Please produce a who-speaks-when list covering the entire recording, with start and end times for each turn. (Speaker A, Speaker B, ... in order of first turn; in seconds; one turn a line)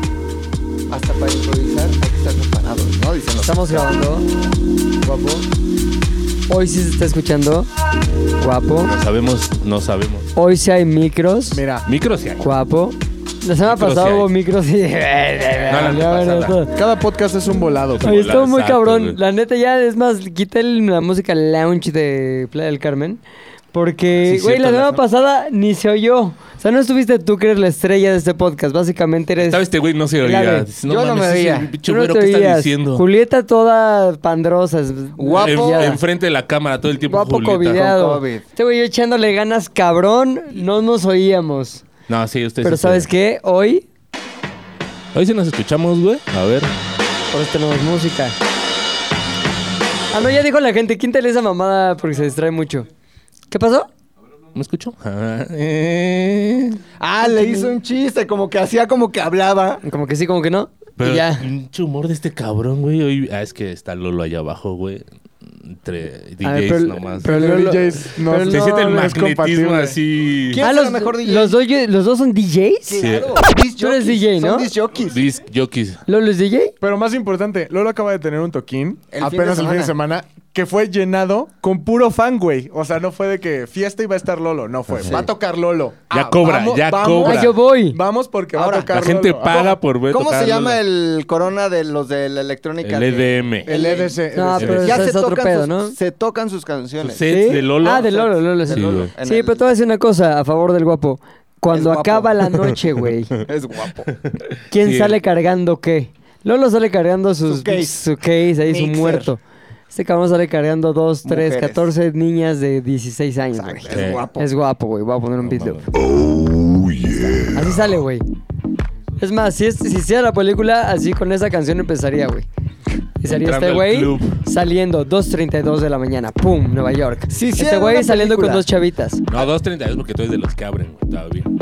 Speaker A: 0.9-3.9
Speaker B: 3.4-4.3
Speaker C: 5.0-5.5
Speaker B: 6.5-7.7
Speaker B: 8.4-8.9
Speaker D: 8.8-10.3
Speaker B: 10.4-11.6
Speaker C: 11.5-11.9
Speaker D: 11.9-12.4
Speaker B: 12.4-16.8
Speaker D: 13.6-14.3
Speaker D: 15.7-16.6
Speaker C: 16.8-18.2
Speaker D: 18.0-19.2
Speaker B: 18.0-23.2
Speaker B: 23.7-29.6
Speaker D: 24.2-25.0
Speaker D: 29.4-33.0
Speaker B: 30.2-30.7
Speaker A: 30.9-31.7
Speaker B: 31.9-36.0
Speaker A: 35.2-36.0
Speaker D: 35.4-37.9
Speaker B: 37.1-41.8
Speaker A: 37.7-38.5
Speaker D: 42.1-43.1
Speaker B: 42.6-43.9
Speaker D: 45.1-46.7
Speaker B: 47.3-48.4
Speaker B: 50.1-52.9
Speaker B: 53.5-53.9
Speaker D: 54.5-56.8
Speaker A: 57.0-59.8
Speaker B: 57.3-57.7
Speaker B: 59.8-61.5
Speaker D: 61.0-67.4
Speaker B: 66.4-69.1
Speaker C: 67.2-70.0
Speaker D: 68.5-70.6
Speaker A: 70.5-71.6
Speaker B: 70.6-73.1
Speaker A: 72.9-75.2
Speaker D: 73.0-73.4
Speaker B: 73.8-74.7
Speaker D: 75.1-76.0
Speaker B: 76.1-76.7
Speaker C: 76.8-89.8
Speaker A: 79.1-79.9
Speaker D: 84.9-85.2
Speaker D: 86.1-87.6
Speaker B: 87.2-88.0
Speaker A: 88.5-88.9
Speaker D: 88.9-90.8
Speaker A: 90.1-99.7
Speaker D: 92.8-93.7
Speaker C: 93.7-95.1
Speaker B: 94.3-96.0
Speaker D: 97.0-99.1
Speaker B: 97.2-103.3
Speaker A: 101.7-102.5
Speaker A: 103.4-104.2
Speaker D: 104.2-105.2
Speaker B: 104.7-109.4
Speaker A: 107.5-108.0
Speaker A: 108.6-109.3
Speaker B: 109.9-115.9
Speaker A: 111.2-111.9
Speaker A: 113.6-114.5
Speaker D: 113.9-114.3
Speaker D: 115.4-117.0
Speaker B: 117.5-118.2
Speaker B: 119.2-122.5
Speaker B: 123.2-129.2
Speaker D: 123.2-124.4
Speaker A: 127.3-128.7
Speaker D: 129.3-131.5